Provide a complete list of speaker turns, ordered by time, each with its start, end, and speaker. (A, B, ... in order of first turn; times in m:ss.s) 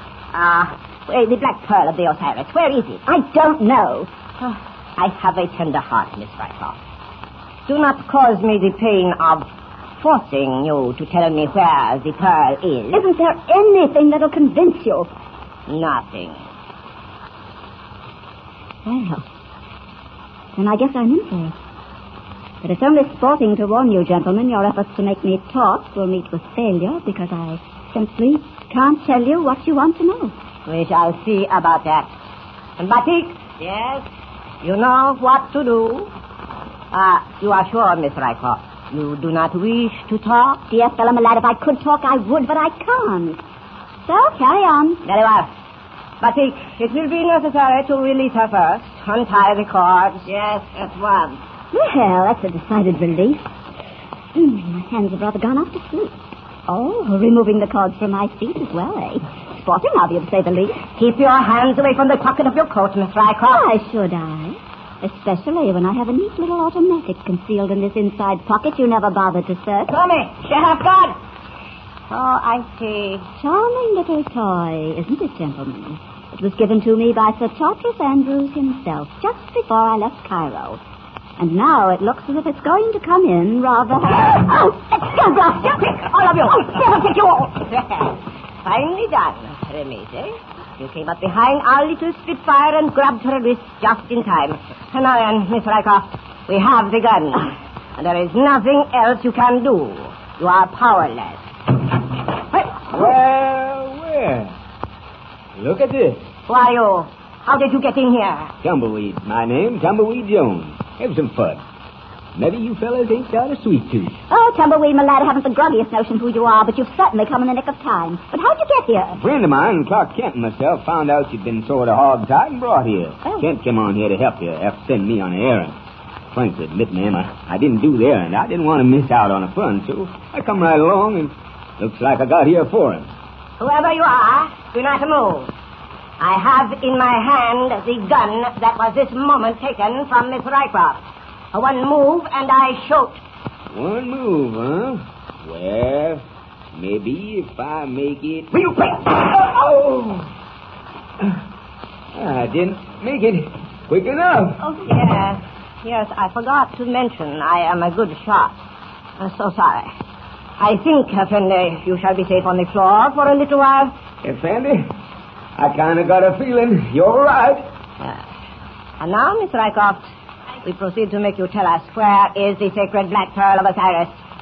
0:00.3-0:03.0 A
0:03.1-0:04.1 B
0:04.4-0:06.8 A
0:07.7-0:09.5 A
0:10.0-0:13.0 A
0:12.9-0:15.1 B
0:15.7-0:16.4 A
0:18.8-0:19.2 B
0:20.6-0:21.5 B
0:22.6-0:30.3 B
0:30.7-0:32.1 A
0:32.8-0:34.1 A
0:34.6-0:36.1 A
0:36.9-0:40.6 A
0:40.6-0:43.4 B
0:44.0-0:45.0 B
0:45.0-0:45.5 A
0:46.2-0:51.4 A
0:51.7-0:53.5 B
0:54.3-0:56.2 B
0:56.7-1:00.8 B
1:00.9-1:03.6 A
1:03.5-1:09.9 B
1:09.9-1:11.2 A
1:12.1-1:13.3 A
1:13.4-1:20.8 B
1:21.4-1:27.3 B
1:25.7-1:41.4 A
1:42.9-1:44.5 C
1:45.6-1:46.3 C
1:46.5-1:48.5 A
1:48.6-1:51.6 C
1:52.4-1:54.2 C
1:54.3-1:59.2 B
1:59.2-2:05.8 C
2:06.3-2:13.1 C
2:13.6-2:15.5 A
2:16.2-2:23.2 A
2:23.7-2:30.3 C
2:32.1-2:34.6 C
2:34.7-2:38.6 A
2:39.2-2:39.9 A
2:40.6-2:44.0 A
2:44.2-2:44.9 C
2:45.6-2:47.7 C
2:49.0-2:50.1 A
2:50.6-2:54.2 A